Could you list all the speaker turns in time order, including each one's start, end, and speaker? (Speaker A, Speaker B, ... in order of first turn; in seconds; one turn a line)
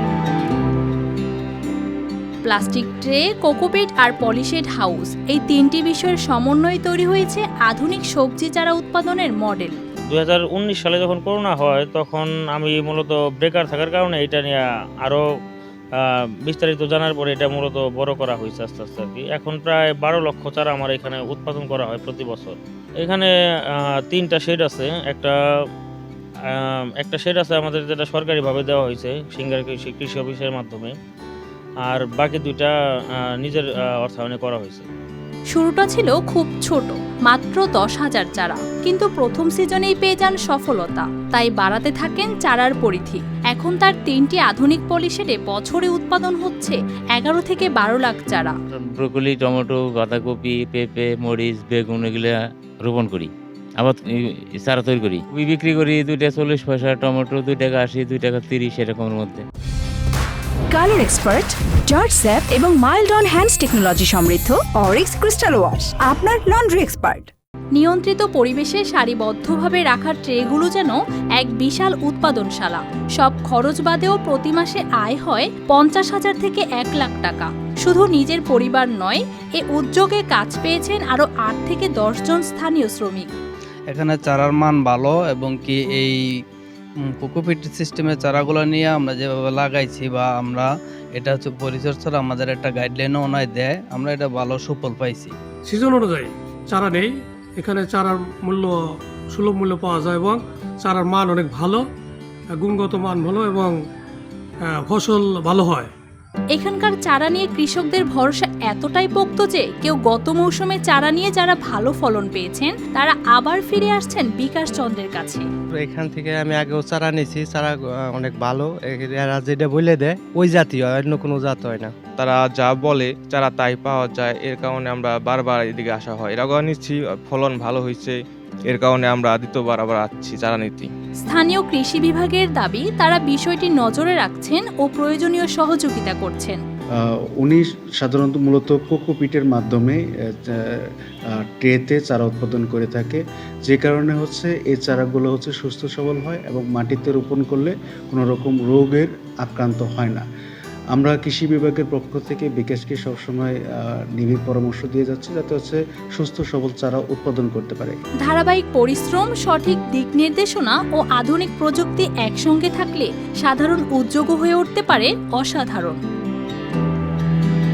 Speaker A: 2.4-9.8
Speaker B: 10.1-15.2
Speaker B: 16.0-25.4
Speaker B: 26.5-30.9
Speaker B: 31.9-32.7
Speaker B: 33.4-34.9
Speaker A: 35.5-48.5
Speaker C: 48.8-54.0
Speaker C: 54.6-59.4
Speaker D: 60.7-67.2
Speaker A: 67.7-83.3
Speaker E: 83.9-86.2
Speaker E: 87.1-95.3
Speaker F: 95.7-98.7
Speaker F: 99.3-101.8
Speaker F: 102.5-103.7
Speaker F: 104.7-105.9
Speaker A: 106.5-115.5
Speaker G: 115.7-121.9
Speaker H: 122.2-130.9
Speaker A: 131.2-136.6
Speaker I: 137.0-140.9
Speaker I: 141.6-150.2
Speaker I: 150.9-153.6
Speaker I: 154.1-158.0
Speaker A: 158.2-166.0